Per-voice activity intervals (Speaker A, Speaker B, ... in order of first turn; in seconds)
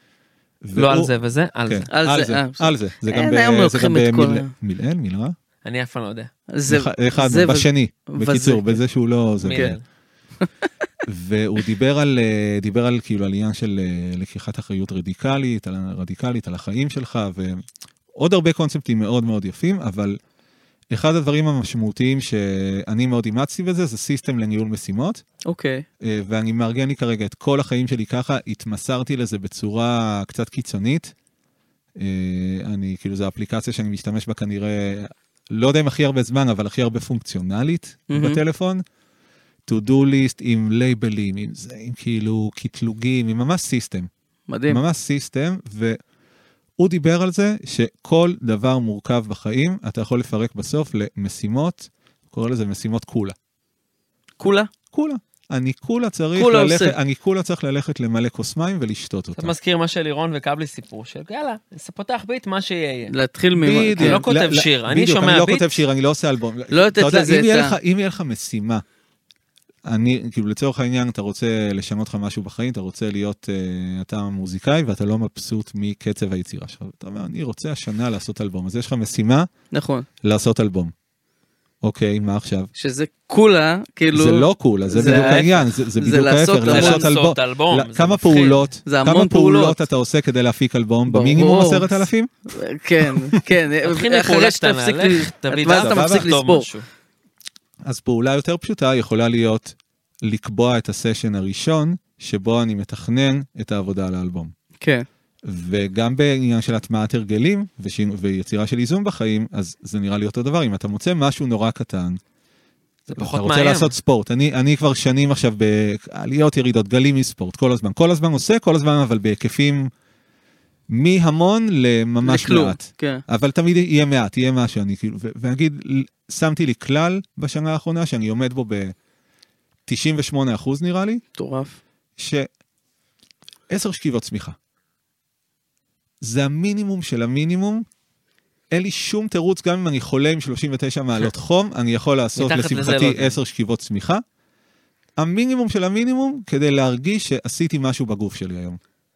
Speaker A: 0.6-1.1, 1.7-5.3, 6.7-9.8, 11.1-17.6, 18.1-20.2, 20.9-25.2, 26.0-31.1, 32.0-38.8, 39.7-44.1, 44.7-46.0, 46.8-53.4, 54.9-59.5, 63.6-68.8, 69.9-79.5, 80.2-80.9, 81.8-82.7, 84.1-92.3, 93.0-93.4, 95.7-96.3, 97.8-104.5, 105.5-112.2, 113.1-119.9, 120.9-128.9, 129.9-131.2, 132.2-132.5, 133.7-134.6, 136.2-137.8, 138.7-144.2, 145.2-148.8
Speaker B: 0.8-1.9, 5.6-6.3, 9.4-9.8, 59.4-63.1, 64.0-65.8, 85.0-85.6, 86.7-88.7, 93.8-96.9, 113.1-113.9, 142.4-143.4
Speaker C: 1.9-4.5, 6.5-8.8, 25.5-25.9, 38.1-38.4, 44.5-44.8, 54.4-54.7, 56.4-57.0, 63.1-64.2, 66.7-67.8, 79.7-80.1, 82.8-87.1, 88.9-89.8, 91.1-96.7, 104.8-105.1, 122.2-123.2, 131.4-131.8